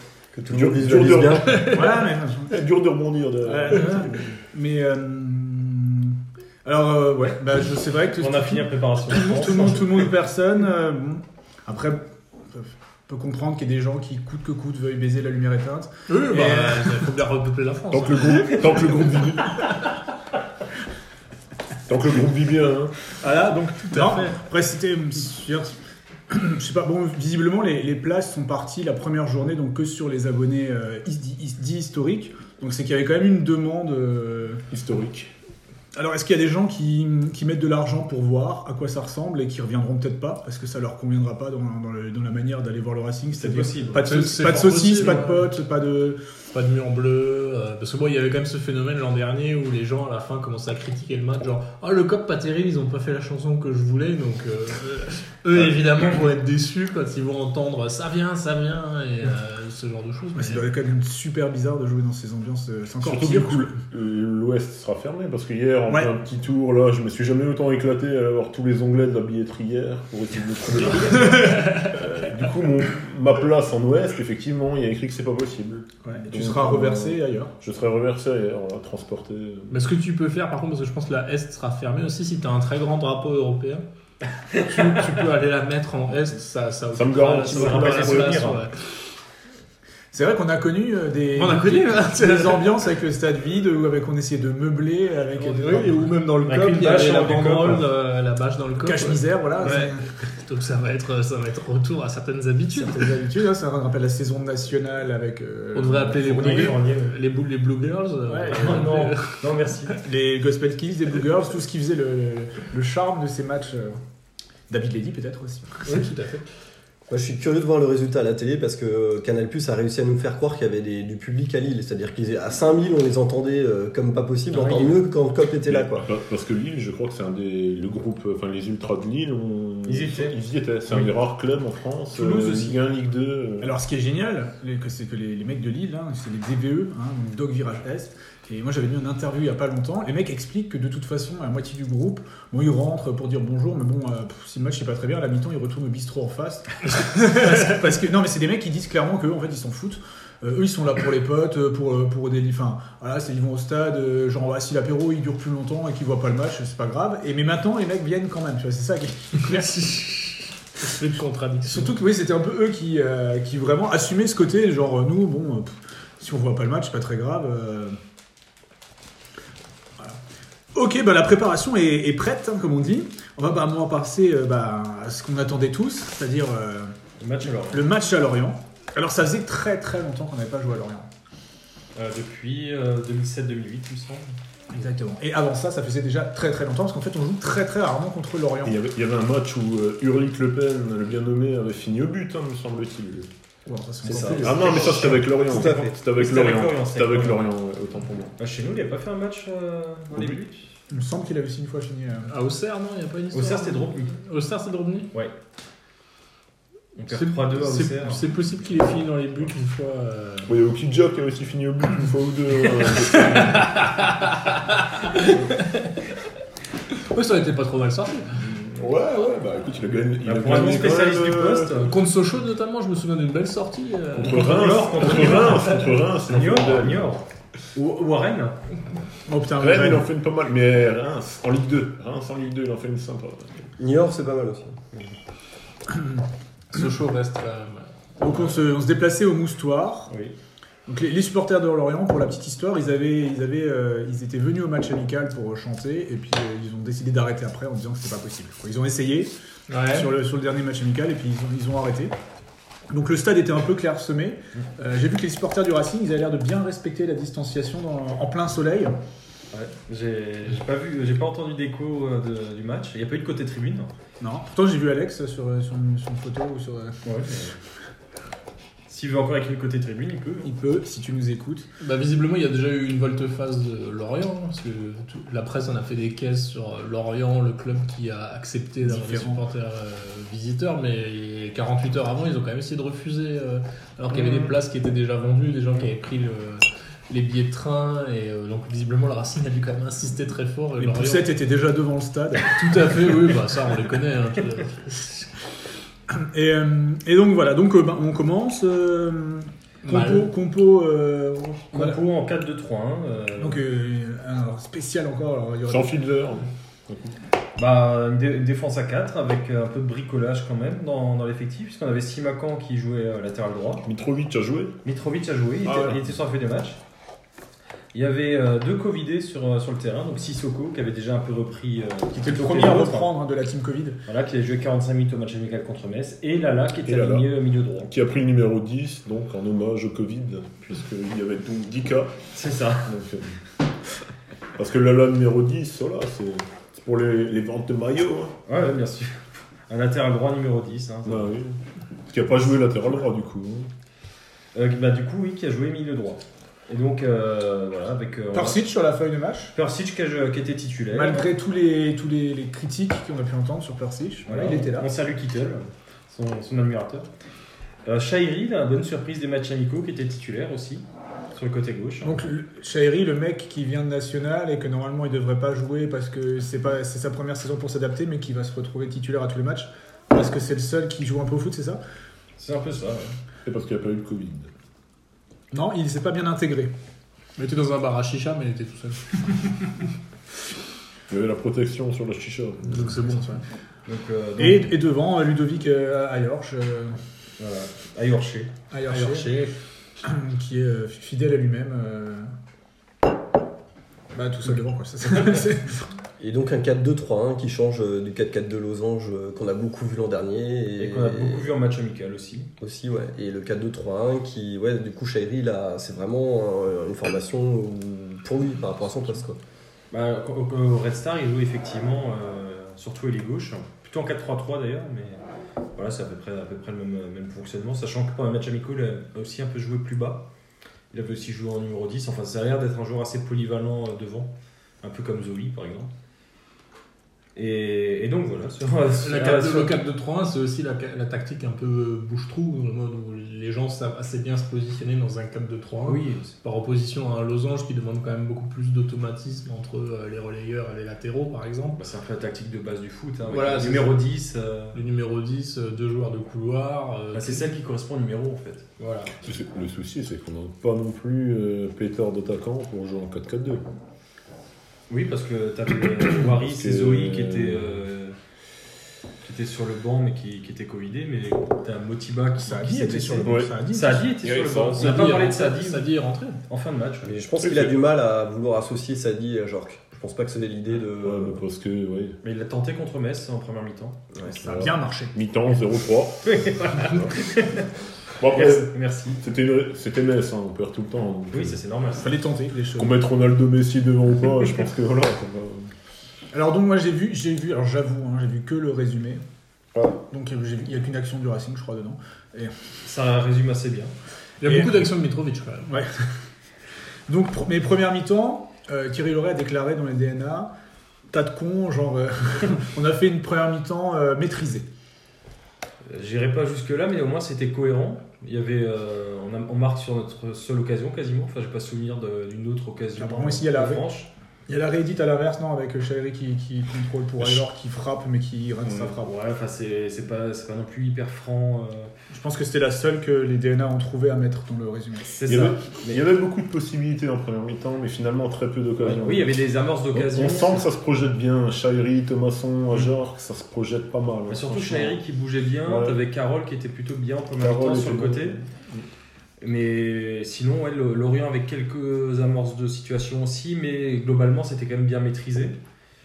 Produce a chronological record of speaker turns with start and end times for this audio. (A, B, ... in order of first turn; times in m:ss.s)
0:00.3-0:01.6 A
0:00.5-0:01.9 B
0:01.4-0:02.1 C
0:01.7-0:02.6 D
0:02.5-0:04.3 B
0:03.4-0:17.1 D
0:08.2-0:10.1 E
0:16.1-0:19.0 C
0:17.9-0:19.7 B
0:21.9-0:23.0 B
0:23.2-0:25.7 D
0:23.4-0:24.4 C
0:26.3-0:34.6 D
0:34.7-0:35.3 B
0:36.0-0:46.2 D
0:43.3-0:44.1 E
0:44.0-0:45.5 C
0:46.5-1:00.6 C
1:00.4-1:03.8 D
1:03.0-1:19.8 B
1:11.1-1:12.0 C
1:16.0-1:17.5 D
1:19.7-1:23.8 C
1:24.5-1:29.0 C
1:26.9-1:28.5 B
1:27.4-1:28.6 E
1:30.1-1:36.1 D
1:31.3-1:32.7 C
1:35.4-1:43.1 C
1:36.5-1:37.9 E
1:38.8-1:40.0 D
1:42.7-1:46.8 D
1:45.7-1:49.5 C
1:46.3-1:47.1 E
1:48.3-1:48.9 D
1:48.5-1:50.0 E
1:50.0-1:54.0 D
1:54.7-1:56.1 D
1:55.9-1:56.4 C
1:57.1-2:06.1 A
2:04.5-2:05.0 E
2:05.7-2:13.7 B
2:09.9-2:10.4 E
2:10.9-2:11.1 E
2:12.1-2:12.8 E
2:13.6-2:40.0 D
2:39.4-2:42.0 C
2:41.7-2:48.0 D
2:50.7-2:56.9 D
2:57.2-2:57.9 E
2:57.7-3:01.1 D
3:02.0-3:04.4 E
3:04.7-3:08.8 D
3:08.6-3:13.3 B
3:13.7-3:15.1 D
3:14.1-3:15.9 A
3:14.1-3:17.5 E
3:14.3-3:18.3 B
3:18.4-3:20.7 E
3:20.9-3:22.3 D
3:22.3-3:25.1 C
3:23.3-3:24.1 E
3:27.0-3:28.2 E
3:27.1-3:30.5 C
3:30.5-3:33.9 B
3:33.2-3:36.0 C
3:37.1-3:38.4 C
3:38.4-3:41.9 B
3:40.2-3:42.0 E
3:41.8-3:45.1 C
3:44.1-3:47.1 B
3:44.2-3:48.8 E
3:49.3-3:50.0 D
3:49.6-3:53.6 B
3:53.8-3:54.8 A
3:56.7-3:57.9 C
3:58.2-4:00.1 D
4:00.9-4:12.1 D
4:09.7-4:10.1 C
4:12.9-4:19.0 D
4:19.5-4:23.9 E
4:24.2-4:27.0 D
4:27.0-4:27.6 E
4:28.9-4:30.5 E
4:30.4-4:31.7 D
4:31.8-4:51.3 C
4:38.8-4:39.4 D
4:44.2-4:44.5 D
4:50.8-4:53.1 D
4:52.5-4:55.3 C
4:56.1-5:02.0 D
4:59.8-5:00.3 C
5:01.7-5:03.6 E
5:03.4-5:06.0 D
5:05.7-5:07.2 B
5:07.6-5:13.9 E
5:13.8-5:14.8 B
5:14.8-5:16.8 E
5:15.6-5:16.0 B
5:17.9-5:23.1 E
5:22.2-5:24.0 D
5:24.1-5:27.9 E
5:26.9-5:27.3 B
5:27.9-5:32.2 B
5:32.3-5:32.9 E
5:32.8-5:33.4 B
5:34.6-5:38.4 B
5:38.5-5:41.3 E
5:41.0-5:43.7 B
5:44.5-5:48.7 E
5:48.3-5:49.5 D
5:49.5-5:51.3 E
5:50.9-5:54.9 D
5:54.3-5:57.1 E
5:57.8-6:02.2 E
6:02.0-6:11.8 D
6:12.4-6:13.2 E
6:13.4-6:14.5 B
6:15.5-6:16.7 D
6:17.4-6:19.8 C
6:21.1-6:23.0 B
6:22.7-6:23.4 C
6:23.9-6:24.8 E
6:24.4-6:27.0 D
6:27.4-6:29.5 E
6:28.7-6:29.4 D
6:30.0-6:32.3 D
6:34.1-6:35.9 D
6:36.2-6:41.5 A
6:40.8-6:42.5 E
6:42.6-6:49.4 A
6:49.9-6:55.2 E
6:55.8-7:00.3 E
7:00.9-7:05.9 E
7:07.4-7:09.8 E
7:09.0-7:21.8 C
7:15.8-7:16.4 E
7:21.8-7:24.8 E
7:23.3-7:24.0 C
7:24.7-7:27.5 C
7:27.1-7:29.2 E
7:29.2-7:33.6 B
7:34.9-7:38.2 E
7:36.2-7:37.8 B
7:39.2-7:45.9 E
7:42.4-7:44.1 D
7:43.2-7:43.5 B
7:44.2-7:45.1 B
7:44.8-7:46.4 C
7:46.5-7:47.2 E
7:47.0-7:51.4 A
7:47.4-7:47.8 B
7:51.0-7:52.2 B
7:52.2-7:54.2 E
7:54.3-7:55.2 D
7:54.4-7:57.2 B
7:56.2-7:57.7 E
7:58.2-8:01.6 B
7:58.2-7:59.2 E
8:01.3-8:02.2 E
8:02.0-8:03.0 D
8:02.8-8:05.7 B
8:06.3-8:09.2 D
8:10.0-8:12.5 D
8:12.8-8:13.9 E
8:14.4-8:15.7 C
8:14.4-8:14.8 D
8:17.1-8:20.5 D
8:21.1-8:24.7 D
8:25.9-8:34.1 E
8:33.0-8:33.8 D
8:34.5-8:39.1 D
8:38.7-8:38.9 B
8:39.0-8:41.9 E
8:42.1-8:45.1 D
8:45.0-8:46.0 E
8:45.3-8:55.0 B
8:48.8-8:50.7 E
8:54.3-8:58.4 E
8:55.6-8:56.0 B
8:57.4-8:58.8 B
8:59.4-9:05.6 E